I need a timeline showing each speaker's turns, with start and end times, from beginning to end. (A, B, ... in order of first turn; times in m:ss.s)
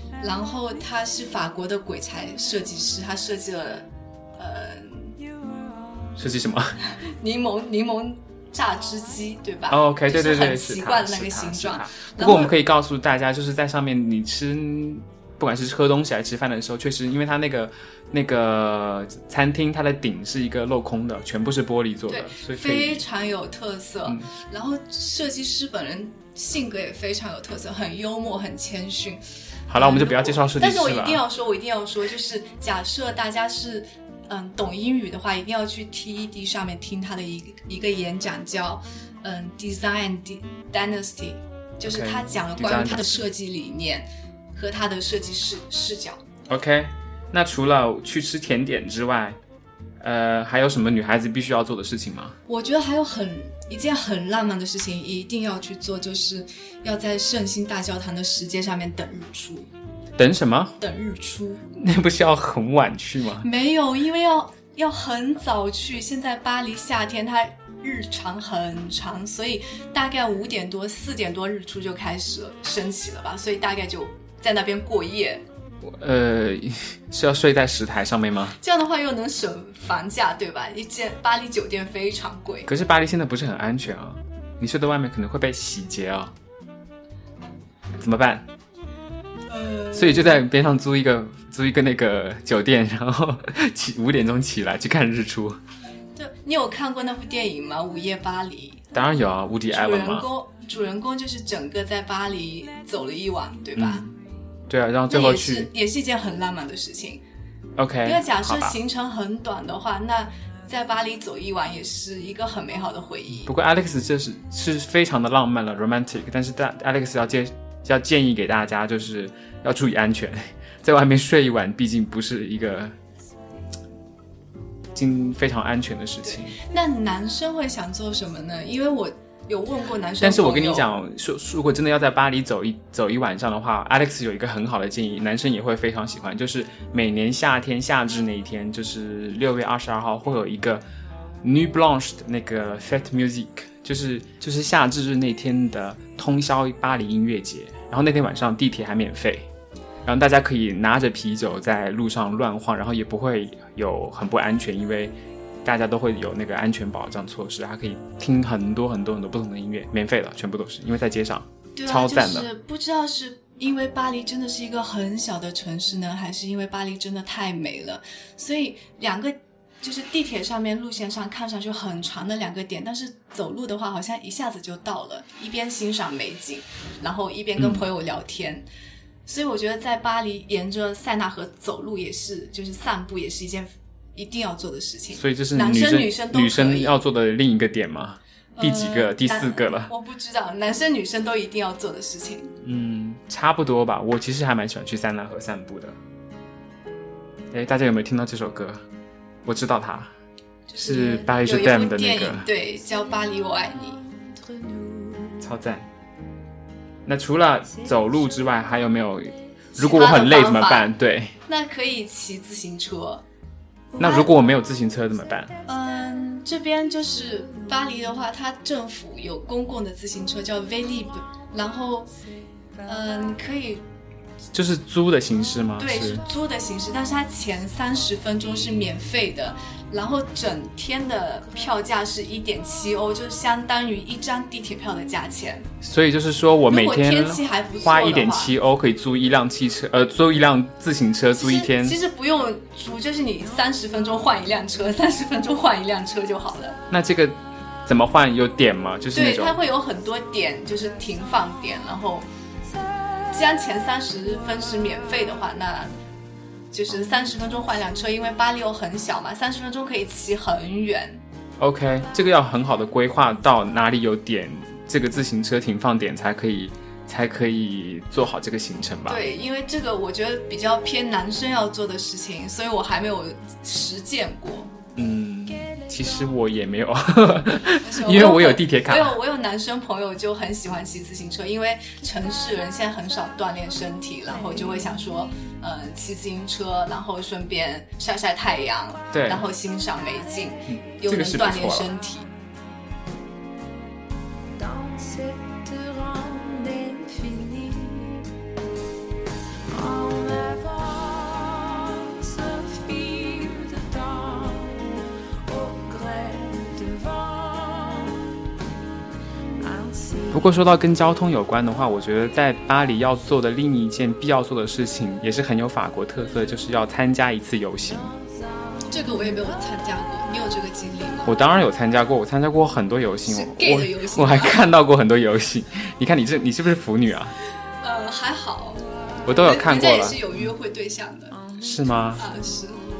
0:00.2-0:05.1 A
0:06.2-0:06.7 B
0:07.0-0:12.5 A
0:09.7-0:23.0 B
0:22.1-0:29.2 A
0:29.7-0:31.2 B
0:29.7-0:46.2 A
0:41.8-0:43.3 B
0:46.5-0:49.4 B
0:50.0-0:52.3 B
0:52.5-0:59.7 A
1:00.2-1:00.8 B
1:00.8-1:01.6 A
1:01.7-1:03.5 B
1:03.4-1:15.4 A
1:15.8-1:18.6 B
1:18.6-1:22.7 A
1:22.6-1:26.3 B
1:28.0-1:28.5 B
1:29.5-1:30.4 A
1:29.9-1:35.6 B
1:36.2-1:38.8 A
1:38.9-1:40.3 B
1:39.7-1:44.0 A
1:43.8-1:44.1 B
1:44.7-1:45.7 B
1:45.1-1:47.2 A
1:47.8-1:48.7 B
1:48.0-1:53.5 A
1:53.4-2:02.9 B
2:04.9-2:06.6 B
2:06.2-2:10.8 A
2:10.2-2:20.8 B
2:21.4-2:29.5 B
2:30.0-2:42.5 B
2:41.8-2:58.6 A
2:57.6-2:57.8 B
2:59.2-3:07.0 A
3:05.1-3:09.9 B
3:08.6-3:12.5 A
3:12.6-3:16.0 B
3:17.5-3:18.8 B
3:19.4-3:20.1 B
3:20.7-3:24.0 A
3:20.8-3:22.5 B
3:24.7-3:25.3 C
3:25.4-3:25.8 B
3:27.0-3:31.3 B
3:29.8-3:30.9 A
3:31.5-3:33.2 A
3:34.0-3:35.5 B
3:34.0-3:34.3 A
3:35.7-3:42.1 A
3:42.8-3:43.8 A
3:44.5-3:46.2 B
3:45.8-3:55.7 A
3:55.8-4:02.0 B
3:56.7-3:58.5 A
4:01.4-4:06.8 A
4:06.9-4:09.6 B
4:09.1-4:12.2 A
4:13.3-4:15.9 A
4:16.7-4:21.2 A
4:21.6-4:29.2 B
4:29.1-4:34.7 A
4:35.0-4:39.2 B
4:37.8-4:52.3 A
4:49.1-4:49.4 B
4:50.7-4:51.9 B
4:54.6-4:58.2 C
4:59.7-5:04.9 C
5:05.4-5:08.3 C
5:09.6-5:10.4 C
5:10.3-5:18.1 B
5:18.9-5:21.3 A
5:21.2-5:27.3 B
5:23.3-5:24.6 A
5:27.8-5:28.8 A
5:29.2-5:30.3 B
5:29.4-5:31.4 A
5:31.6-5:32.2 B
5:32.2-5:32.8 A